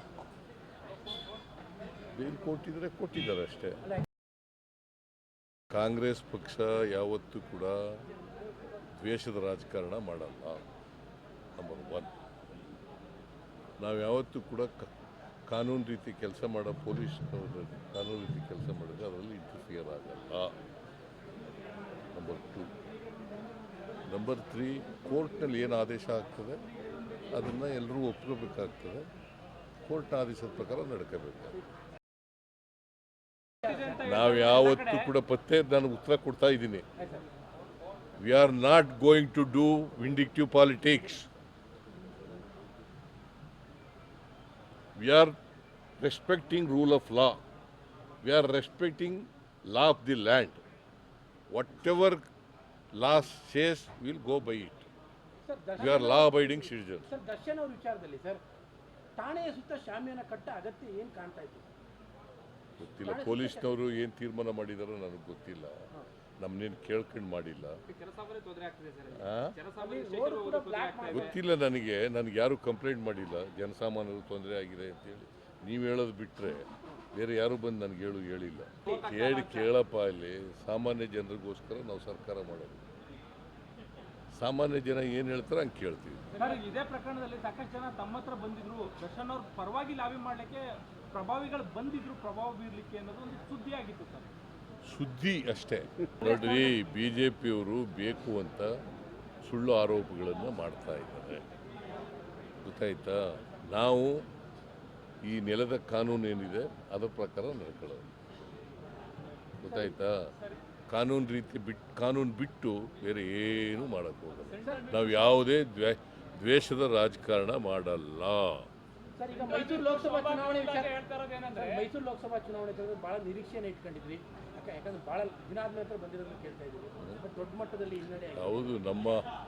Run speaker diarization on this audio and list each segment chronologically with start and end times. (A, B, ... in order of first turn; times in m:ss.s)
0:02.1-0:03.8 A
0:05.7-0:08.0 A
0:08.9-0:10.7 A
0:11.6-0:12.1 A
0:13.8-0:14.9 A
0:15.5-0:20.6 A
0:22.1-0:22.7 A
0:24.1-0:26.6 A
0:27.3-0:29.1 A
0:29.8-0:31.6 A
0:33.6-0:35.1 B
0:34.0-0:36.8 A
0:38.2-0:41.3 A
0:45.0-0:45.4 A
0:46.0-0:47.4 A
0:48.2-0:50.6 A
0:51.5-0:52.3 A
0:53.0-0:54.9 A
0:55.4-0:58.4 C
0:55.8-0:57.1 A
0:59.2-1:01.7 C
1:02.8-1:05.9 A
1:03.0-1:03.8 C
1:06.4-1:07.8 A
1:07.9-1:11.3 B
1:09.1-1:09.6 A
1:09.8-1:11.3 C
1:11.1-1:22.9 A
1:18.8-1:19.7 B
1:24.3-1:26.3 A
1:26.3-1:34.3 B
1:34.8-1:38.7 A
1:39.4-1:41.4 A
1:42.6-1:44.2 A
1:45.2-1:48.1 A
1:49.6-1:50.3 A
1:50.9-1:58.7 A
1:54.5-1:55.2 B
1:54.6-1:54.9 C
1:59.2-2:08.6 C
1:59.4-2:01.9 B
2:08.4-2:09.2 A